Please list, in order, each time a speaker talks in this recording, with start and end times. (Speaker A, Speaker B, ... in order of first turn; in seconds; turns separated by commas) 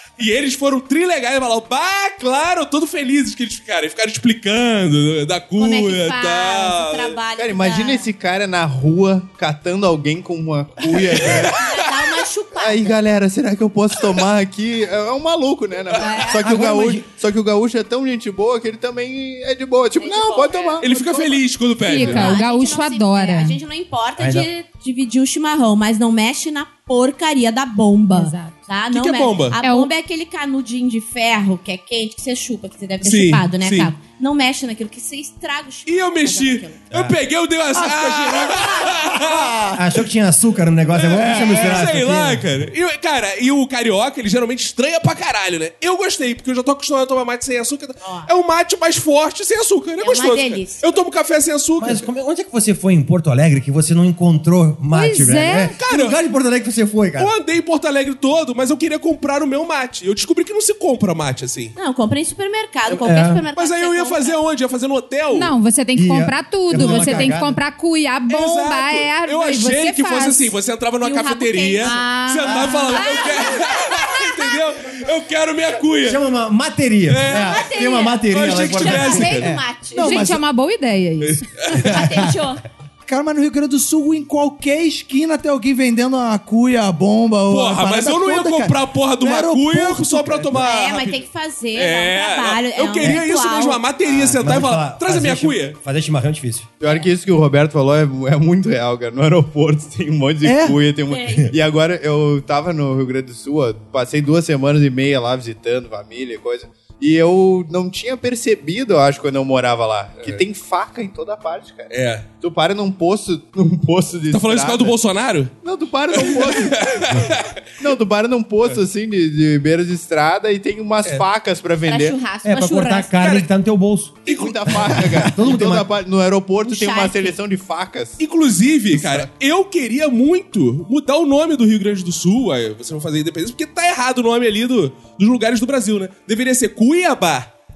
Speaker A: 0.2-7.2, Speaker B: 5.6-8.1, Speaker C: 7.4-11.6, Speaker B: 11.5-13.0, Speaker C: 12.6-20.9, Speaker B: 16.0-16.4, Speaker D: 16.4-17.1, Speaker B: 20.0-36.9, Speaker A: 20.8-22.4, Speaker E: 21.9-23.6, Speaker D: 24.2-24.5, Speaker E: 28.1-28.6, Speaker A: 28.9-29.6, Speaker E: 29.6-29.9, Speaker A: 33.0-33.9, Speaker A: 35.9-39.6, Speaker D: 36.9-37.2, Speaker F: 37.8-39.8, Speaker B: 38.6-38.9, Speaker D: 39.7-42.6, Speaker A: 41.0-52.0, Speaker F: 41.2-41.9, Speaker B: 48.0-48.3, Speaker B: 50.0-50.8, Speaker D: 51.8-57.3, Speaker E: 54.9-55.8, Speaker A: 55.5-56.2, Speaker A: 57.2-61.8, Speaker B: 61.8-64.4, Speaker D: 62.9-63.4, Speaker A: 63.5-65.5, Speaker E: 65.3-70.5, Speaker D: 66.0-67.6, Speaker A: 68.3-76.2, Speaker B: 71.0-72.1, Speaker E: 71.8-73.2, Speaker B: 73.0-73.6, Speaker D: 76.0-79.4, Speaker A: 77.1-77.7, Speaker B: 77.3-80.2, Speaker A: 78.3-79.5, Speaker F: 79.4-80.4, Speaker E: 80.0-81.5, Speaker A: 81.6-82.0, Speaker B: 81.8-82.6, Speaker F: 83.0-90.7, Speaker A: 87.5-95.8, Speaker B: 90.5-93.9, Speaker D: 94.4-96.7, Speaker C: 96.8-115.0, Speaker F: 100.5-100.8, Speaker B: 101.1-101.5, Speaker A: 111.9-112.3, Speaker A: 114.3-115.5, Speaker C: 115.6-122.2, Speaker A: 116.1-117.5, Speaker B: 121.9-123.1, Speaker D: 122.4-124.2, Speaker A: 123.2-123.5, Speaker A: 124.3-125.2, Speaker C: 124.3-128.2, Speaker D: 124.7-125.9, Speaker B: 126.6-127.4, Speaker A: 128.2-137.5, Speaker C: 128.9-129.3